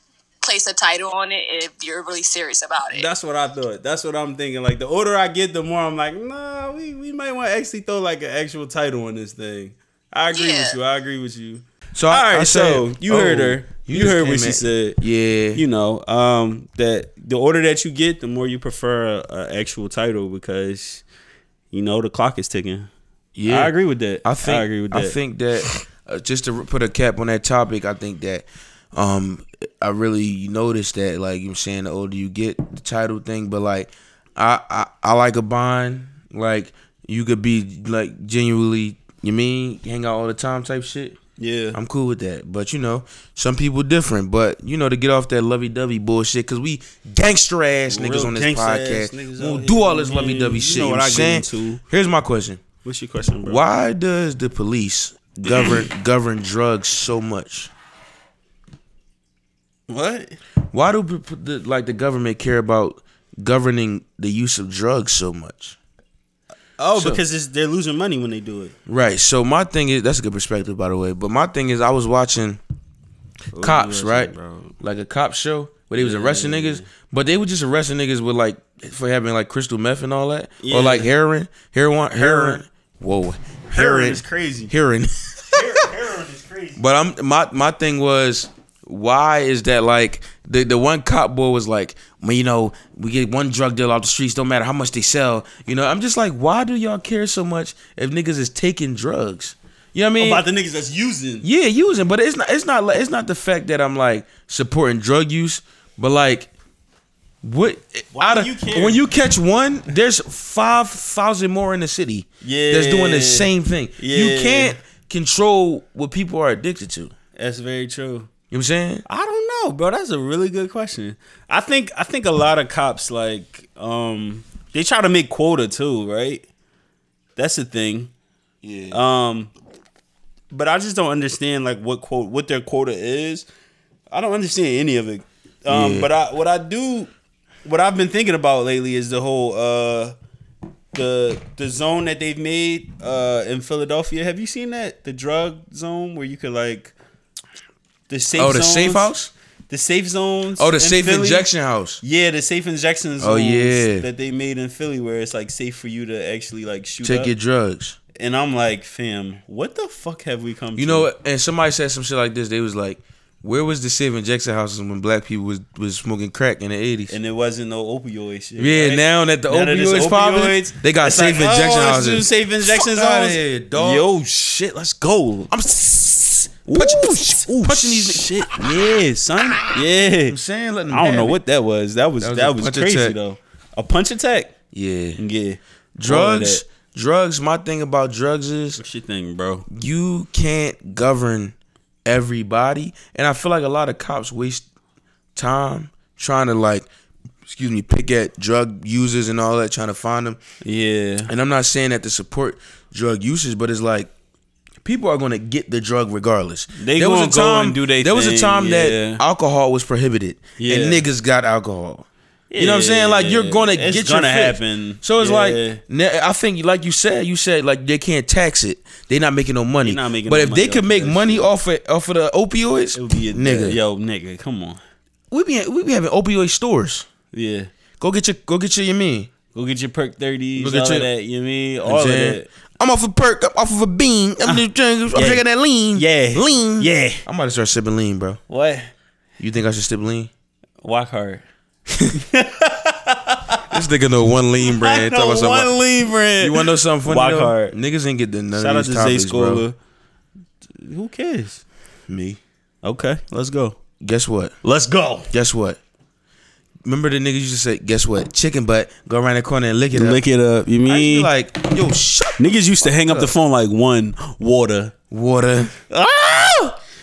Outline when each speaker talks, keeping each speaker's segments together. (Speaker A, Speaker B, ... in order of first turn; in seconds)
Speaker A: 0.4-3.1, 10.3-10.8
Speaker B: 2.9-15.0, 15.5-21.0, 21.7-22.9, 23.4-25.8, 41.4-41.8, 47.9-51.8, 52.8-53.6, 55.4-55.9, 59.9-60.4, 66.8-68.7, 73.5-74.8, 76.0-76.8, 80.6-81.1, 82.1-82.6, 83.7-84.7, 85.5-86.8, 100.2-101.5, 108.1-109.0, 112.4-114.8, 117.3-118.3, 119.1-126.5, 127.3-128.1, 128.9-129.5, 130.5-133.4, 134.1-137.1, 137.6-140.1, 140.9-146.9, 148.1-149.1, 149.7-151.5, 152.0-157.3, 158.1-161.1, 167.1-175.5, 176.7-180.4, 180.9-184.5, 185.2-186.6, 188.8-189.6, 200.6-201.3, 206.8-209.2, 210.6-211.0, 212.5-215.8, 219.8-221.5, 222.9-224.8, 227.3-227.7, 229.5-232.5, 235.1-237.2, 238.5-238.9, 240.8-241.4, 242.1-243.8, 244.6-247.8, 248.5-249.8, 250.7-251.6, 252.8-253.8, 254.6-255.3, 259.9-261.3, 262.4-264.9, 265.8-266.8
Speaker C: 11.9-15.6, 23.4-41.2, 41.7-52.6, 53.4-57.7, 60.7-65.8, 66.9-67.2, 68.9-72.6, 73.6-85.6, 86.8-100.4, 101.4-106.5, 107.4-117.1, 118.5-119.0, 128.6-129.0, 135.7-136.1, 148.4-149.3, 150.6-152.0, 153.2-154.1, 157.0-158.0, 160.8-167.1, 168.6-174.1, 175.5-178.9, 180.3-181.4, 182.2-183.1, 184.7-185.2, 186.0-188.8, 189.7-194.7, 195.3-196.9, 197.4-200.4, 201.3-204.1, 204.8-212.1, 212.6-223.8, 225.3-227.1, 228.0-229.3, 230.6-231.1, 231.8-238.4, 239.4-240.3, 243.7-245.7, 246.4-249.6, 252.1-252.4, 254.0-254.6, 255.3-255.8, 256.8-260.2, 260.9-263.3, 265.1-265.7